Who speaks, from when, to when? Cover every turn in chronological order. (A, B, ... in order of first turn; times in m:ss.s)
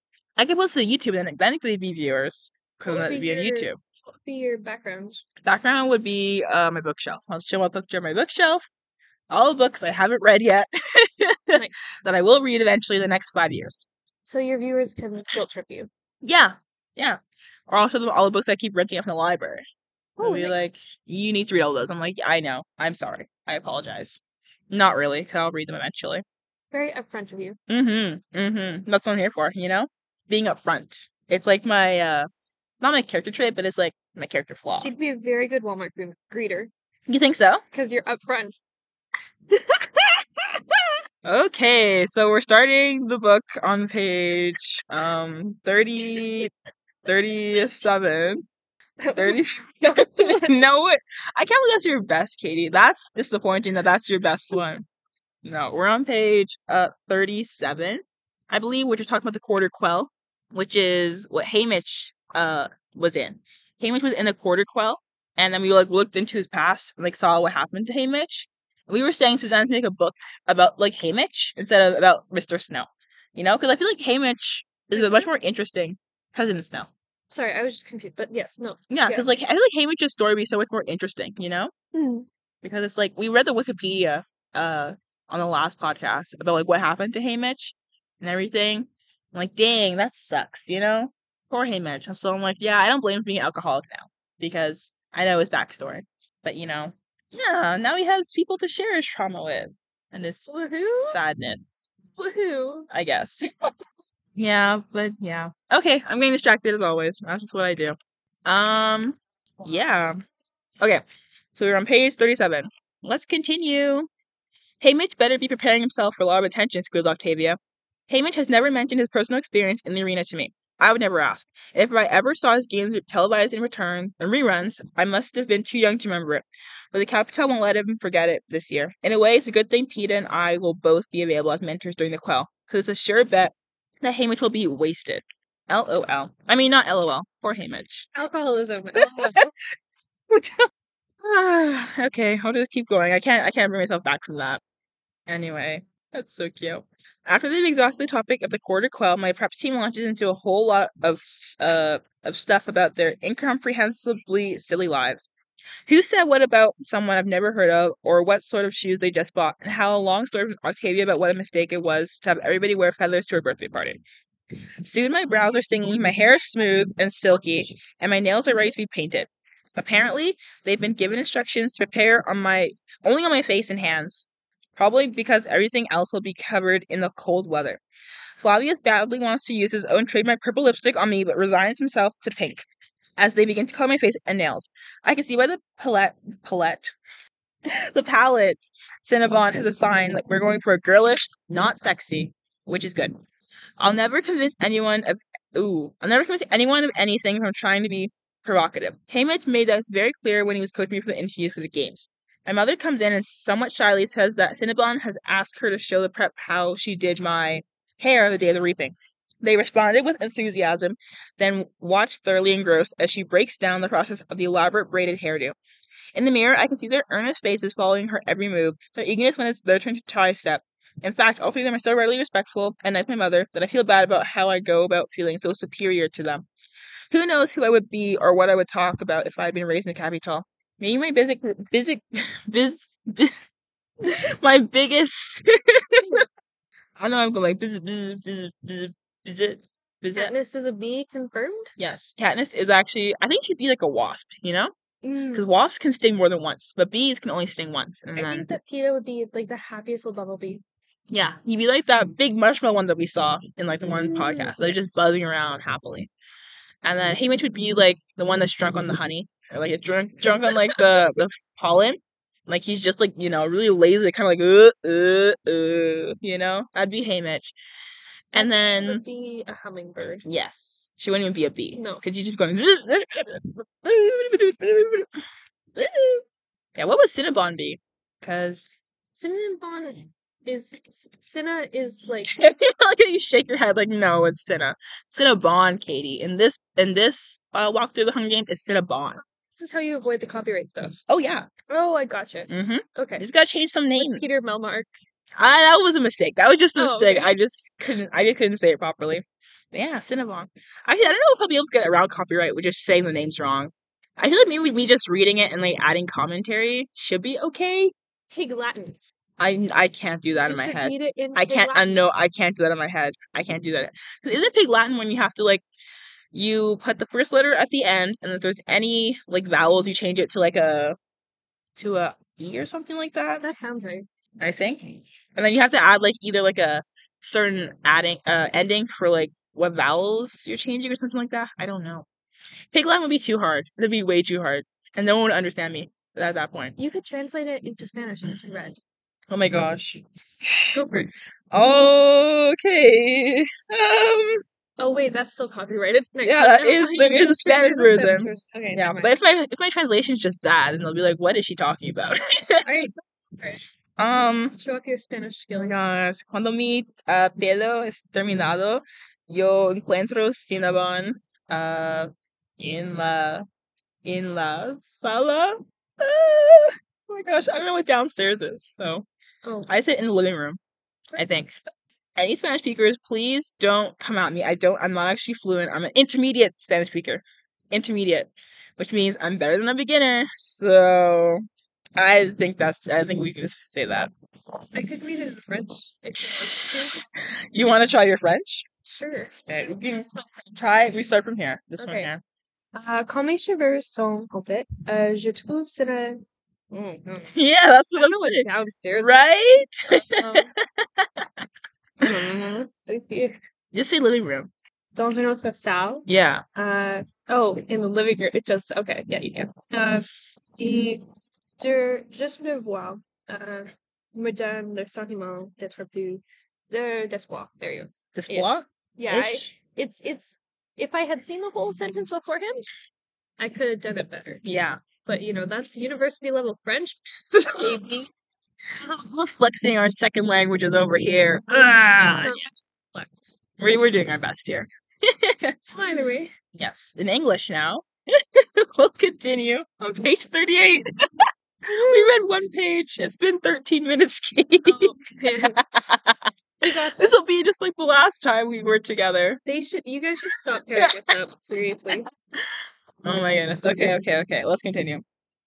0:00.4-0:03.8 A
0:02.8-0:05.2 B
0:05.4-0:08.6 A
0:09.3-0:13.9 A
0:14.2-0:15.9 B
0:16.2-0:19.6 A
0:20.2-0:20.7 B
0:20.2-0:24.2 A
0:24.7-0:26.2 A
0:26.7-0:27.6 B
0:27.7-0:32.3 A
0:32.8-0:34.9 A
0:34.7-0:36.7 B
0:37.1-0:37.6 A
0:37.7-0:38.6 B
0:39.5-0:40.8 B
0:41.2-0:46.5 A
0:47.0-0:48.5 A
0:49.0-0:50.6 B
0:49.2-0:54.9 A
0:55.4-1:16.9 A
1:14.9-1:15.3 B
1:17.3-1:19.3 B
1:18.9-1:21.7 A
1:21.9-1:22.3 B
1:22.6-1:41.9 A
1:40.5-1:41.2 B
1:42.2-1:42.9 B
1:42.9-1:43.5 A
1:44.4-1:50.2 A
1:51.5-1:54.1 A
1:54.8-2:18.1 A
2:18.2-2:19.5 B
2:19.0-2:19.5 A
2:20.3-2:20.6 A
2:21.2-2:24.6 A
2:25.3-2:35.3 A
2:35.9-2:44.0 A
2:44.8-2:57.8 A
2:58.4-3:02.7 A
3:03.2-3:07.0 A
3:07.9-3:13.2 A
3:13.8-3:35.6 A
3:36.2-3:46.5 A
3:47.1-3:53.4 A
3:54.0-3:56.2 A
3:57.0-4:00.3 A
4:00.2-4:01.7 B
4:01.8-4:04.7 A
4:05.0-4:05.5 B
4:05.3-4:08.5 A
4:08.2-4:10.6 B
4:11.1-4:16.1 A
4:13.9-4:15.0 B
4:16.8-4:27.5 A
4:28.3-4:29.0 A
4:28.4-4:30.2 B
4:30.2-4:35.1 A
4:31.8-4:32.0 B
4:35.8-4:36.2 A
4:36.8-4:38.7 A
4:39.1-4:42.3 B
4:42.3-4:49.2 A
4:49.5-4:51.0 B
4:51.1-4:51.5 A
4:51.7-4:53.3 B
4:52.5-4:54.4 A
4:54.0-4:54.9 B
4:55.4-5:07.9 A
4:56.8-4:57.3 B
5:08.3-5:09.0 B
5:09.4-5:15.6 A
5:10.5-5:12.0 B
5:16.3-5:21.0 A
5:21.8-5:23.5 A
5:23.4-5:24.1 B
5:24.4-5:32.1 A
5:32.7-5:36.8 A
5:36.8-5:38.8 B
5:39.3-5:40.8 A
5:40.7-5:41.1 B
5:41.5-5:44.4 A
5:44.8-5:49.2 B
5:46.2-5:52.9 A
5:52.6-5:53.6 B
5:54.0-5:54.6 A
5:54.6-5:55.8 B
5:55.5-6:03.5 A
6:04.0-6:09.1 A
6:09.4-6:09.7 B
6:09.7-6:10.6 A
6:11.2-6:11.5 A
6:12.2-6:21.4 A
6:22.0-6:24.1 A
6:24.7-6:27.0 B
6:26.3-6:28.7 A
6:28.8-6:30.3 B
6:29.5-6:32.2 A
6:31.8-6:32.1 B
6:32.7-6:37.4 B
6:37.3-6:41.3 A
6:37.9-6:39.2 B
6:40.2-6:40.5 B
6:42.0-6:43.3 B
6:43.7-6:44.5 A
6:45.0-6:50.1 B
6:46.1-6:46.4 A
6:50.6-6:51.0 B
6:51.6-7:02.7 B
6:58.2-6:59.5 A
7:03.4-7:04.4 B
7:04.4-7:04.8 A
7:05.0-7:08.1 B
7:07.3-7:07.8 A
7:08.8-7:12.4 A
7:12.0-7:13.4 B
7:13.6-7:15.6 A
7:15.7-7:16.3 B
7:16.6-7:20.9 A
7:21.7-7:22.2 B
7:21.7-7:29.4 A
7:24.6-7:25.6 B
7:26.6-7:27.2 B
7:29.4-7:32.1 B
7:30.8-7:31.1 A
7:33.0-7:35.0 A